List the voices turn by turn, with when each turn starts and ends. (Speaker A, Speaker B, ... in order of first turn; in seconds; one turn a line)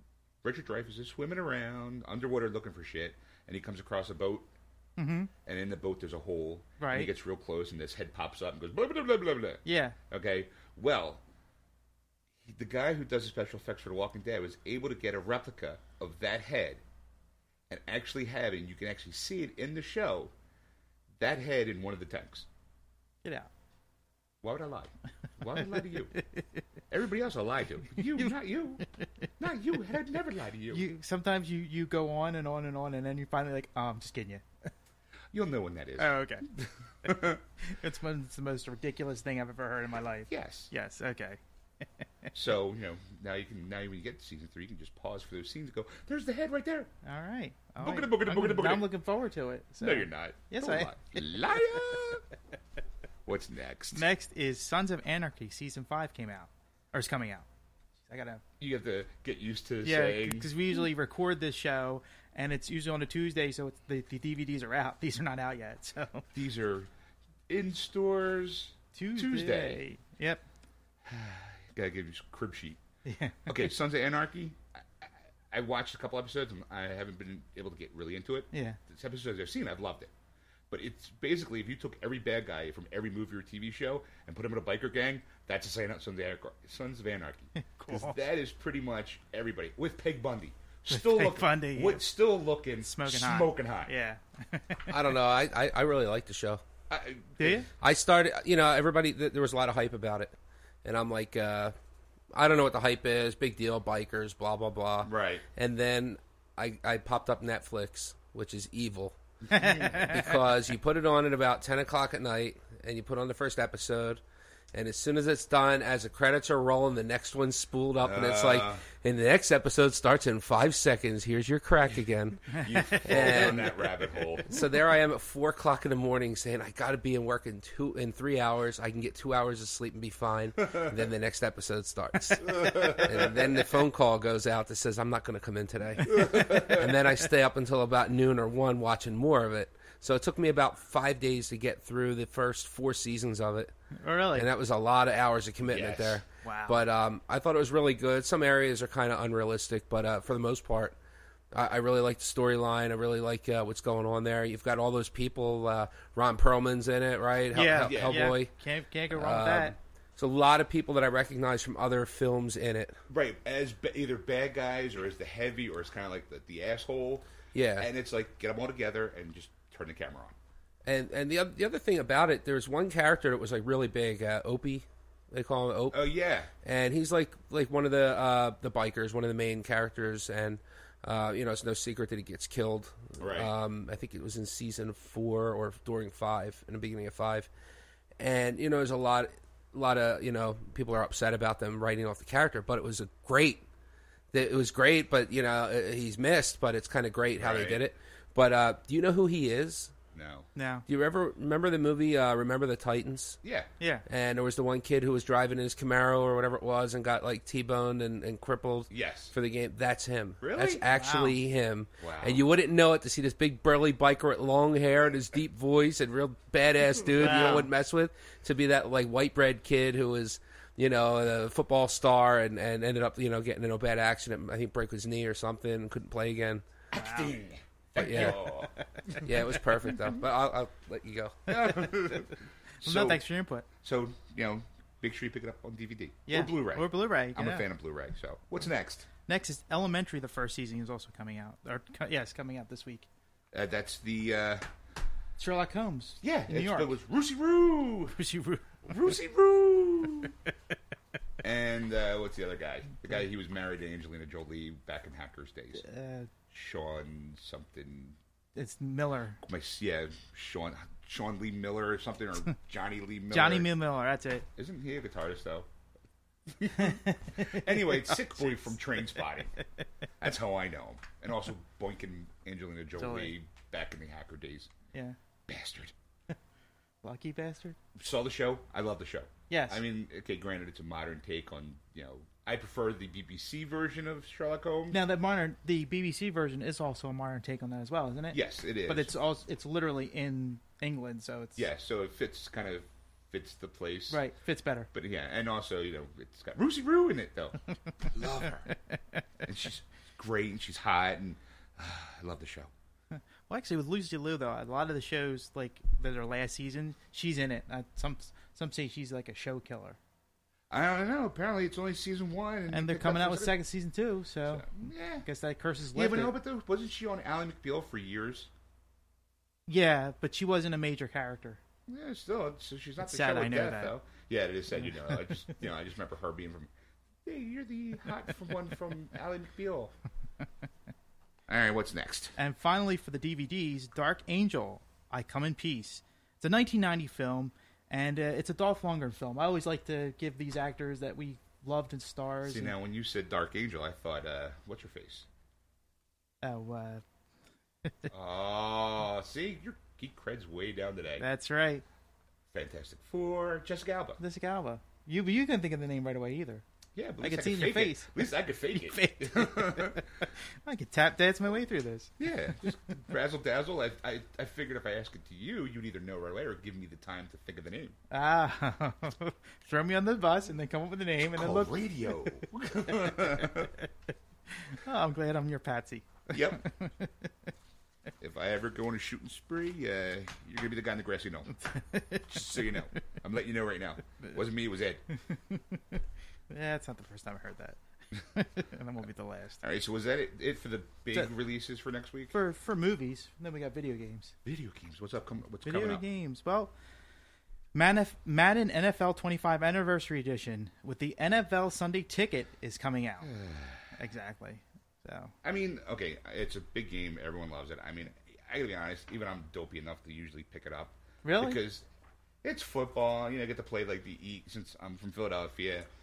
Speaker A: 0.4-4.5
Speaker B: 5.0-5.3
Speaker A: 5.4-11.2
Speaker B: 6.8-7.1
Speaker B: 9.6-10.0
Speaker A: 12.4-16.8
Speaker A: 17.7-20.3
Speaker A: 21.2-22.5
Speaker B: 23.2-23.5
Speaker A: 24.4-26.2
Speaker A: 26.9-28.8
Speaker B: 27.9-28.3
Speaker A: 29.4-30.8
Speaker B: 30.7-34.4
Speaker A: 35.3-37.4
Speaker B: 36.0-36.5
Speaker B: 37.6-41.4
Speaker A: 40.3-40.7
Speaker A: 42.3-46.9
Speaker B: 47.0-50.9
Speaker A: 47.8-48.9
Speaker A: 49.8-52.2
Speaker A: 53.2-54.0
Speaker B: 53.9-57.5
Speaker B: 58.0-58.4
Speaker A: 58.6-60.8
Speaker B: 59.8-66.3
Speaker A: 66.3-66.9
Speaker A: 67.5-69.8
Speaker B: 68.9-70.4
Speaker A: 71.0-72.8
Speaker B: 73.0-73.5
Speaker A: 73.5-80.1
Speaker B: 78.5-78.8
Speaker A: 80.7-93.9
Speaker B: 87.5-88.2
Speaker B: 90.9-92.0
Speaker B: 92.8-95.0
Speaker C: 94.9-96.6
Speaker A: 96.9-97.7
Speaker B: 97.4-97.7
Speaker C: 97.8-101.7
Speaker C: 102.3-114.2
Speaker A: 105.0-105.4
Speaker A: 109.5-110.2
Speaker B: 109.5-110.2
Speaker C: 114.7-123.9
Speaker A: 118.0-118.8
Speaker B: 122.5-123.4
Speaker A: 122.5-124.7
Speaker C: 124.4-143.7
Speaker A: 132.5-133.3
Speaker A: 136.1-136.9
Speaker B: 143.9-144.5
Speaker C: 144.3-150.9
Speaker A: 145.6-146.2
Speaker B: 146.4-146.8
Speaker C: 151.5-158.5
Speaker B: 157.5-159.7
Speaker A: 157.8-158.3
Speaker C: 159.1-163.0
Speaker A: 163.1-170.3
Speaker C: 167.5-167.9
Speaker C: 170.8-176.0
Speaker A: 175.9-176.5
Speaker C: 176.6-187.5
Speaker A: 183.2-183.5
Speaker C: 188.2-193.6
Speaker C: 194.3-199.9
Speaker A: 197.3-197.9
Speaker A: 200.1-200.5
Speaker B: 200.6-200.8
Speaker C: 200.9-203.4
Speaker A: 203.4-203.7
Speaker C: 204.1-226.6
Speaker A: 208.9-209.3
Speaker A: 210.4-210.8
Speaker B: 210.8-211.4
Speaker A: 212.0-212.4
Speaker A: 217.0-217.7
Speaker B: 217.2-217.7
Speaker A: 226.9-229.3
Speaker B: 226.9-227.3
Speaker C: 228.0-228.4
Speaker B: 228.1-228.5
Speaker C: 229.2-231.4
Speaker A: 229.9-230.2
Speaker A: 231.5-233.2
Speaker B: 231.6-232.3
Speaker B: 232.8-233.7
Speaker A: 233.8-239.1
Speaker B: 236.3-237.7
Speaker B: 239.3-243.1
Speaker A: 243.5-244.7
Speaker B: 245.4-246.9
Speaker A: 246.2-248.2
Speaker B: 248.1-249.1
Speaker A: 248.8-250.3
Speaker A: 251.4-255.8
Speaker B: 255.8-256.3
Speaker A: 256.5-258.2
Speaker B: 258.6-259.4
Speaker A: 259.4-263.7
Speaker B: 263.3-264.4
Speaker A: 264.6-265.7
Speaker A: 266.5-269.5
Speaker B: 266.7-268.6
Speaker A: 270.2-274.7
Speaker B: 273.0-273.3
Speaker A: 275.5-275.9
Speaker B: 277.0-277.8
Speaker A: 277.9-285.0
Speaker B: 279.5-279.8
Speaker B: 284.9-291.7
Speaker A: 288.3-289.1
Speaker A: 291.6-294.2
Speaker B: 294.1-294.9
Speaker A: 294.9-298.7
Speaker A: 299.4-302.7
Speaker B: 303.1-310.0
Speaker A: 310.7-313.5
Speaker B: 312.7-314.7
Speaker A: 314.5-315.3
Speaker B: 315.2-316.3
Speaker A: 315.9-318.5
Speaker B: 319.7-321.6
Speaker A: 321.9-326.7
Speaker B: 323.0-323.9
Speaker B: 324.9-325.3
Speaker A: 327.2-329.9
Speaker A: 331.5-332.3
Speaker B: 332.4-342.7
Speaker A: 342.4-345.3
Speaker B: 346.4-347.0
Speaker A: 348.1-351.2
Speaker B: 351.2-351.8
Speaker A: 352.5-354.2
Speaker B: 354.2-356.6
Speaker A: 356.9-360.2
Speaker B: 357.2-362.2
Speaker A: 362.2-368.0
Speaker B: 368.1-372.4
Speaker A: 371.3-373.7
Speaker B: 372.9-373.9
Speaker B: 374.5-377.3
Speaker A: 376.3-376.6
Speaker A: 378.2-381.5
Speaker B: 381.5-383.0
Speaker A: 382.2-385.0
Speaker B: 385.1-389.6
Speaker A: 389.6-392.3
Speaker B: 392.3-394.4
Speaker A: 394.4-396.0
Speaker B: 395.6-396.7
Speaker B: 397.7-403.3
Speaker A: 403.2-403.9
Speaker B: 403.9-405.3
Speaker A: 405.4-411.9
Speaker B: 411.2-411.6
Speaker A: 412.4-415.9